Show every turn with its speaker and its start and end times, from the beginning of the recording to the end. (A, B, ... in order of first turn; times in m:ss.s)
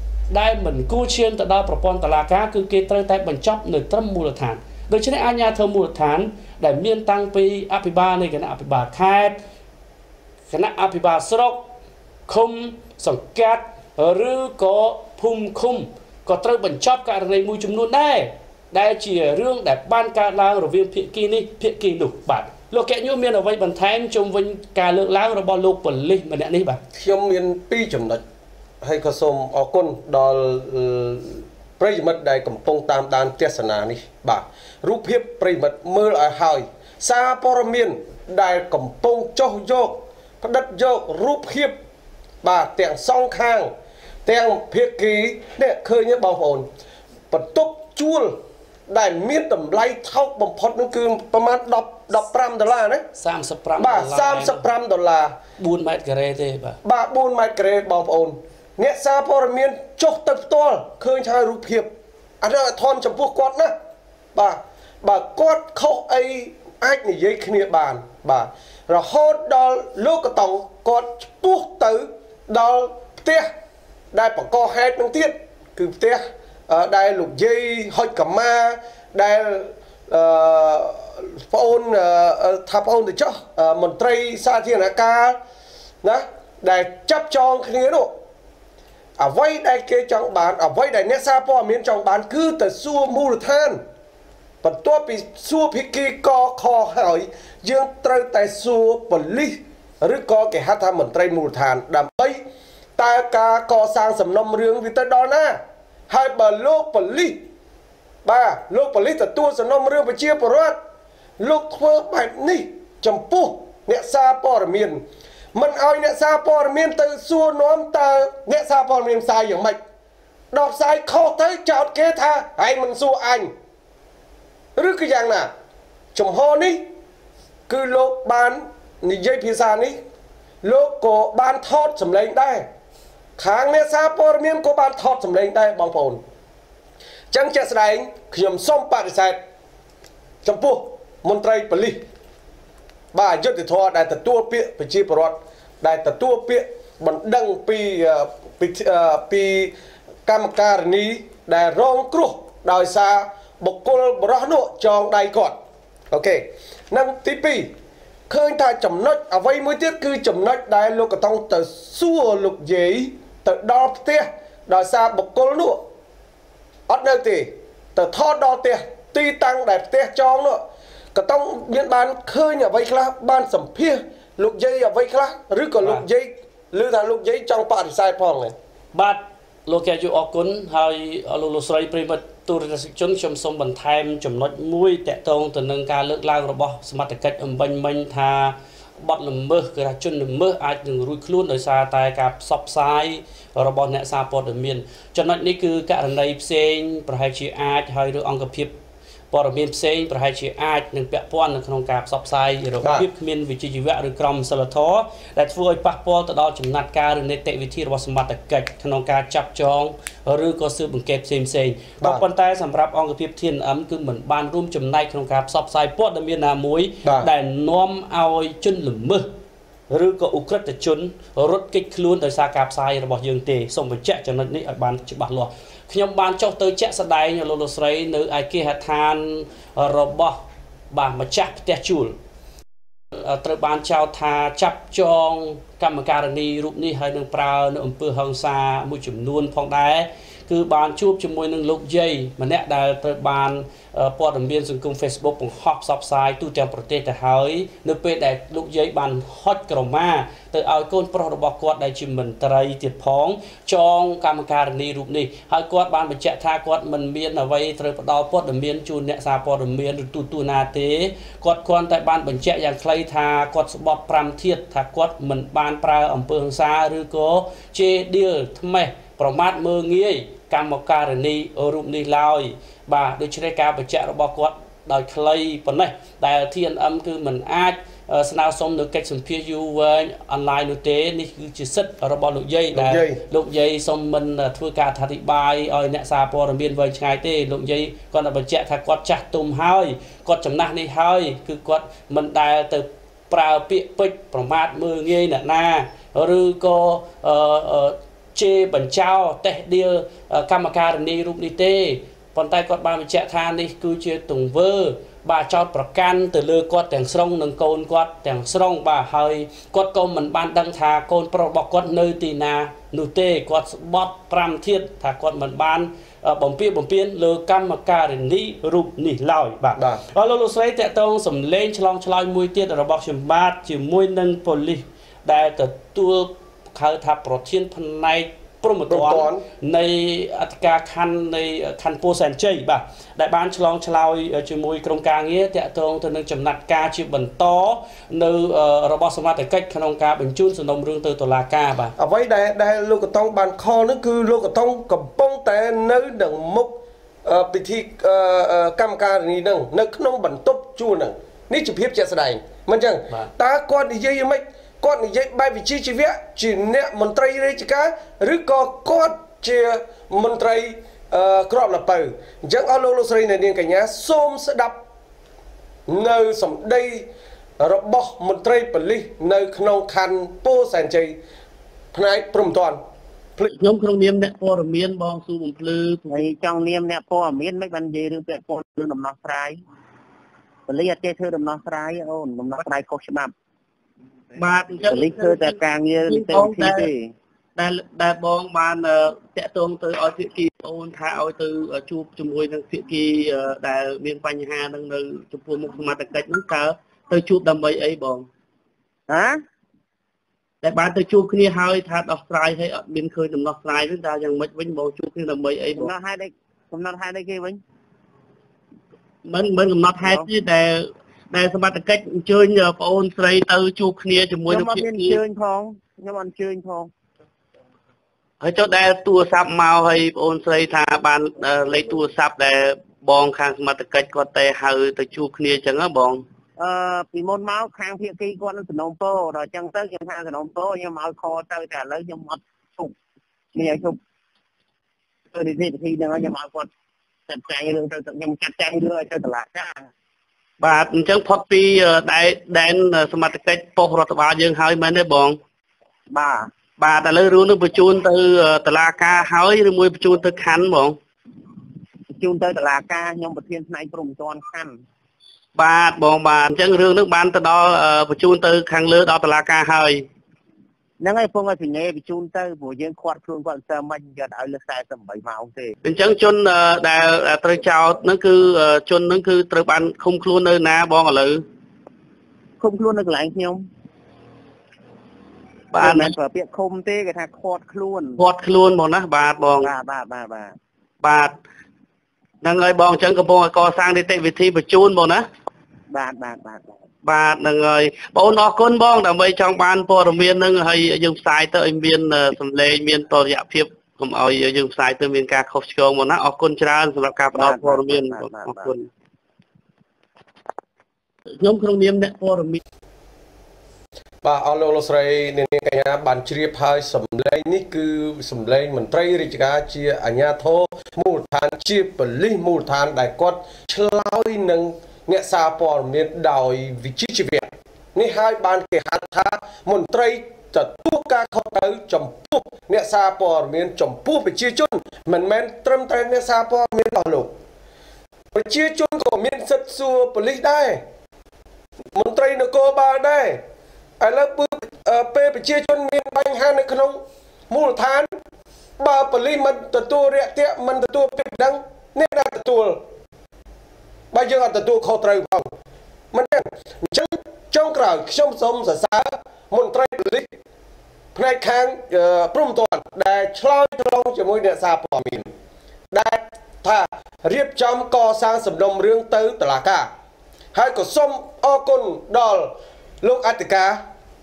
0:00.3-0:09.4 A
0:10.5-0:11.7 A
0:12.3-0:26.8 A
0:26.9-0:28.2 B
0:28.8-0:41.8 B
0:42.4-0:43.7 B
0:44.3-0:46.7 B
0:47.3-0:53.0 B
0:53.2-0:54.6 A
0:53.8-0:55.4 B
0:55.6-0:56.8 A
0:56.8-1:03.7 B
1:04.4-1:13.5 B
1:14.1-1:25.4 B
1:26.0-1:28.1 B
1:29.2-1:33.8 B
1:34.6-1:42.4 B
1:43.0-1:45.6 B
1:46.1-1:47.4 B
1:48.2-1:50.8 B
1:51.4-1:55.0 B
1:55.6-1:59.8 B
2:00.5-2:03.5 B
2:04.8-2:05.5 B
2:06.2-2:06.8 B
2:07.7-2:10.0 B
2:10.6-2:12.7 B
2:13.4-2:16.2 B
2:17.3-2:19.4 B
2:20.4-2:22.0 B
2:23.1-2:29.7 B
2:30.3-2:35.6 B
2:36.1-2:37.7 B
2:38.3-2:45.8 B
2:46.9-2:58.5 B
2:58.9-3:18.8 A
3:19.3-3:39.3 A
3:37.0-3:37.3 B
3:39.9-3:50.4 A
3:50.9-3:52.2 A
3:53.1-5:41.9 A
4:42.7-4:43.2 B
5:19.8-5:20.0 B
5:28.9-5:29.4 B
5:42.0-6:04.8 B
6:05.9-6:07.1 B
6:07.6-6:11.2 B
6:11.9-6:12.8 B
6:13.5-6:16.1 C
6:16.1-6:19.6 D
6:20.7-6:23.3 D
6:24.4-6:26.9 C
6:24.9-6:27.1 D
6:27.6-6:38.3 C
6:39.1-6:39.4 D
6:40.6-6:45.9 C
6:45.8-6:47.6 D
6:49.2-6:55.2 C
6:50.0-6:50.3 D
6:54.5-6:56.9 D
6:58.4-7:06.2 C
7:06.6-7:13.0 D
7:13.5-7:14.0 D
7:15.3-7:16.7 D
7:17.3-7:19.9 D
7:20.6-7:25.4 C
7:26.1-7:26.5 D
7:26.8-7:31.0 C
7:32.2-7:34.8 D
7:35.6-7:40.1 C
7:41.0-7:45.8 D
7:45.8-7:51.4 C
7:52.6-7:53.6 D
7:55.7-7:56.2 C
7:55.8-7:58.2 D
7:58.2-7:59.7 C
7:59.6-8:00.6 D
8:01.0-8:01.4 C
8:02.4-8:05.3 C
8:05.9-8:06.7 D
8:07.0-8:18.9 C
8:17.4-8:18.7 D
8:21.4-8:22.6 C
8:24.2-8:47.4 B
8:48.3-8:50.8 B
8:51.9-8:53.4 B
8:54.0-8:58.2 B
8:58.8-9:02.8 B
9:04.1-9:05.5 B
9:06.1-9:10.4 B
9:11.2-9:15.3 B
9:15.9-9:19.9 B
9:20.5-9:23.8 B